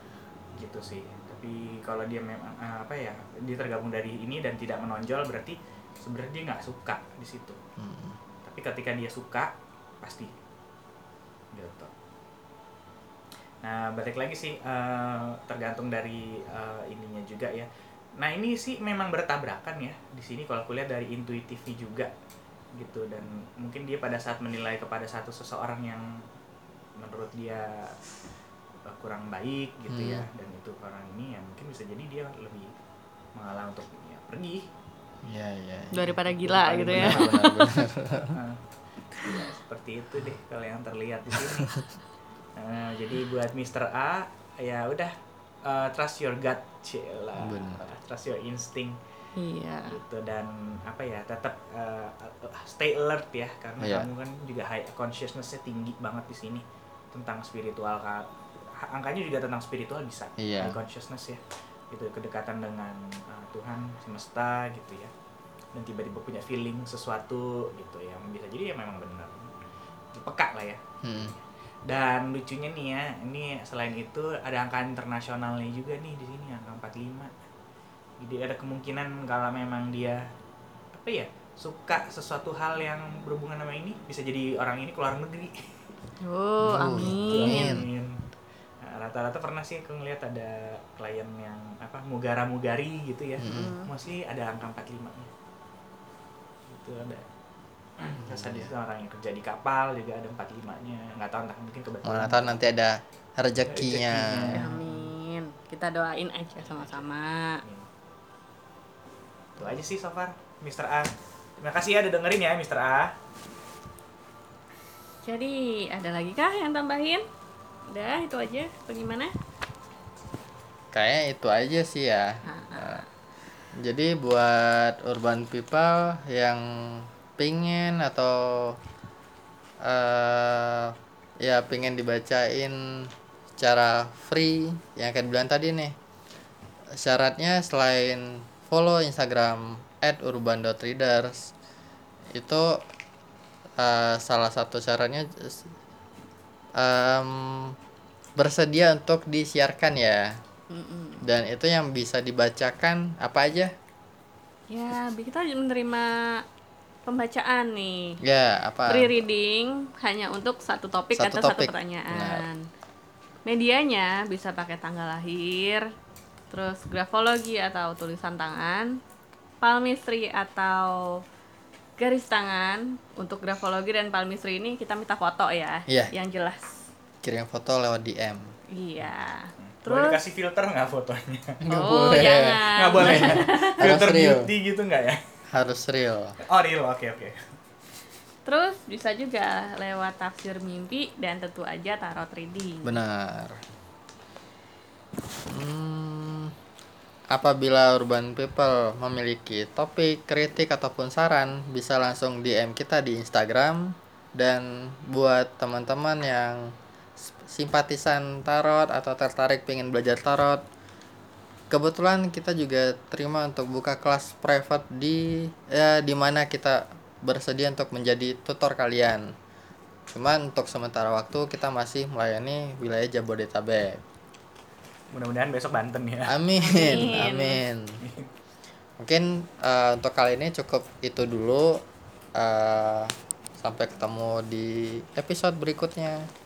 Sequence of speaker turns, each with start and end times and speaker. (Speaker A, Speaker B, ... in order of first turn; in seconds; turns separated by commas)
Speaker A: 0.6-7.6, Speaker B: 7.8-8.2, Speaker A: 8.4-10.3, Speaker A: 11.5-11.9, Speaker A: 13.6-22.1, Speaker A: 22.8-26.1, Speaker A: 27.0-28.0, Speaker A: 28.9-32.7, Speaker B: 29.9-30.3, Speaker A: 33.4-34.7, Speaker B: 35.2-38.4, Speaker C: 35.9-37.7, Speaker A: 36.4-37.4, Speaker A: 38.2-41.8, Speaker A: 42.6-49.0, Speaker B: 47.4-47.9, Speaker C: 49.4-50.0, Speaker A: 49.9-65.1, Speaker B: 53.8-54.1, Speaker B: 60.4-60.8, Speaker A: 65.7-69.5, Speaker A: 70.1-77.3, Speaker B: 71.0-71.3, Speaker A: 78.2-80.2, Speaker A: 81.0-85.8, Speaker C: 86.2-87.8, Speaker B: 86.6-87.9, Speaker A: 87.0-88.2, Speaker A: 88.8-95.3, Speaker B: 93.4-93.8, Speaker C: 93.5-93.9, Speaker A: 96.7-97.3, Speaker A: 98.0-102.7, Speaker B: 98.2-98.7, Speaker B: 102.0-104.7, Speaker A: 103.7-105.1, Speaker C: 104.5-107.6, Speaker A: 106.6-107.9, Speaker A: 109.6-113.1, Speaker C: 115.2-117.2, Speaker C: 117.9-119.3, Speaker B: 120.9-123.0, Speaker C: 122.5-123.0, Speaker B: 123.8-128.8, Speaker B: 129.8-135.9, Speaker B: 137.0-141.5, Speaker B: 142.3-142.8, Speaker B: 143.8-145.7, Speaker B: 146.8-147.8, Speaker B: 148.4-150.4, Speaker C: 150.7-151.2, Speaker B: 151.2-153.7, Speaker C: 154.7-156.2, Speaker C: 157.1-158.2, Speaker B: 158.2-159.2, Speaker C: 158.9-162.6, Speaker B: 161.2-162.5, Speaker C: 163.5-165.8, Speaker C: 166.5-169.0, Speaker C: 169.6-171.0, Speaker C: 172.0-176.8, Speaker B: 177.2-178.5, Speaker C: 178.7-180.2, Speaker A: 179.6-181.6, Speaker B: 181.7-184.5, Speaker C: 181.7-183.8, Speaker A: 182.7-185.2, Speaker B: 185.5-186.4, Speaker A: 186.4-187.4, Speaker C: 188.4-192.9, Speaker B: 192.8-193.6, Speaker B: 195.5-196.5, Speaker B: 197.3-210.6, Speaker B: 211.7-219.3, Speaker B: 220.1-224.0, Speaker A: 225.1-226.3, Speaker B: 226.3-228.0, Speaker C: 226.6-227.6, Speaker A: 226.9-227.2, Speaker A: 228.0-228.3, Speaker B: 229.0-231.8, Speaker B: 232.3-236.3